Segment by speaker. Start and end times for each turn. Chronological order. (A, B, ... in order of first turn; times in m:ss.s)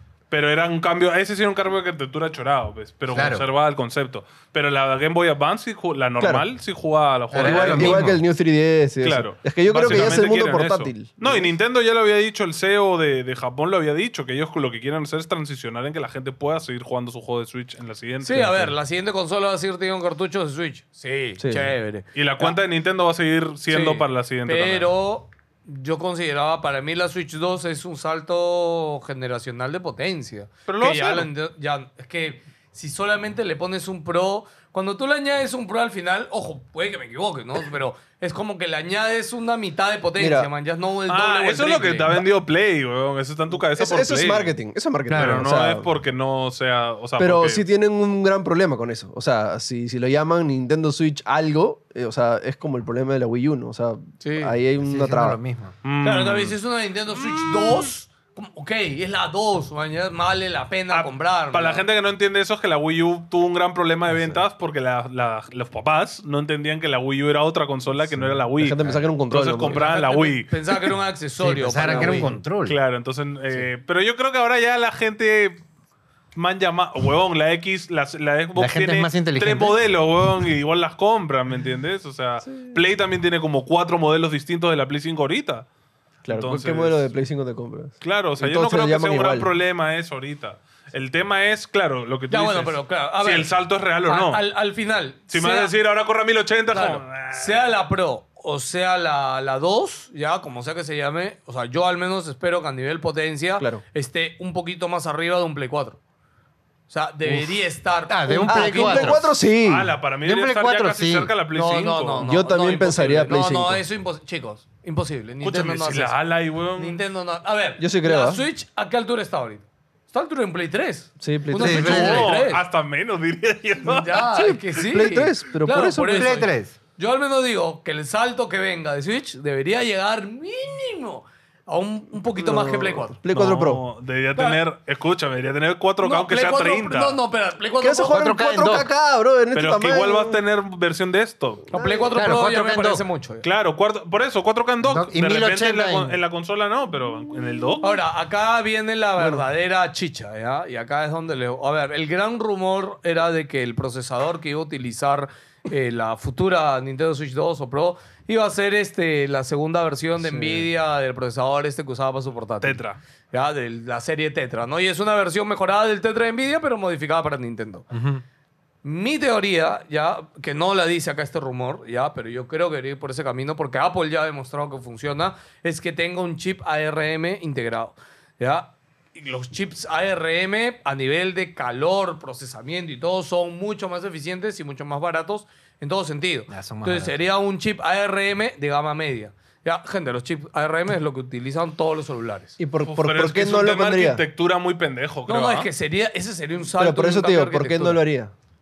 0:00.3-0:08.1 A
0:03.1-0:03.4 B
0:06.2-0:06.4 C
0:07.3-0:08.2 B
0:07.4-0:11.5 C
0:09.0-0:18.6 A
0:18.2-0:22.6 D
0:18.4-0:18.7 C
0:21.4-0:21.7 C
0:22.1-0:24.9 A
0:23.7-0:42.2 D
0:30.7-0:31.3 A
0:40.2-0:40.5 C
0:41.1-0:44.5 A
0:43.7-0:45.9 C
0:45.1-0:45.5 B
0:45.1-0:47.6 A
0:47.2-0:55.4 C
0:54.2-0:54.6 D
0:54.8-0:55.7 B
0:55.8-0:56.6 A
0:56.0-1:01.8 D
0:57.1-0:57.9 A
1:00.9-1:10.5 A
1:04.1-1:04.4 C
1:08.6-1:09.8 C
1:09.6-1:12.3 D
1:11.4-1:12.8 B
1:11.9-1:15.6 A
1:16.3-1:25.7 A
1:18.6-1:19.8 B
1:22.4-1:22.8 C
1:26.2-1:29.5 C
1:26.3-1:27.1 A
1:28.0-1:34.4 A
1:32.3-1:33.5 D
1:34.0-1:35.7 D
1:35.3-1:37.7 A
1:36.7-1:46.0 D
1:46.9-1:49.2 D
1:48.1-1:49.2 B
1:48.5-1:49.9 C
1:48.9-1:52.2 A
1:50.2-1:51.3 B
1:51.5-1:56.2 D
1:52.2-1:53.8 C
1:55.4-1:57.0 A
1:56.8-2:02.6 D
1:57.8-1:58.4 C
2:01.2-2:02.2 C
2:01.6-2:02.3 B
2:01.7-2:04.2 A
2:03.8-2:13.2 D
2:04.3-2:06.4 C
2:06.1-2:06.7 B
2:12.4-2:13.8 C
2:13.3-2:17.2 A
2:14.4-2:14.6 D
2:16.0-2:18.2 D
2:17.8-2:20.4 C
2:18.1-2:18.9 B
2:19.5-2:21.7 A
2:21.7-2:23.4 D
2:21.7-2:22.2 C
2:22.1-2:23.0 B
2:23.4-2:27.9 A
2:24.8-2:26.2 B
2:27.8-2:47.9 D
2:29.2-2:29.4 C
2:40.3-2:40.7 B
2:42.6-2:43.0 A
2:47.9-2:48.2 B
2:48.8-3:12.5 D
3:06.5-3:07.2 B
3:12.6-3:14.2 C
3:12.8-3:15.7 A
3:15.3-3:18.0 D
3:16.7-3:18.3 C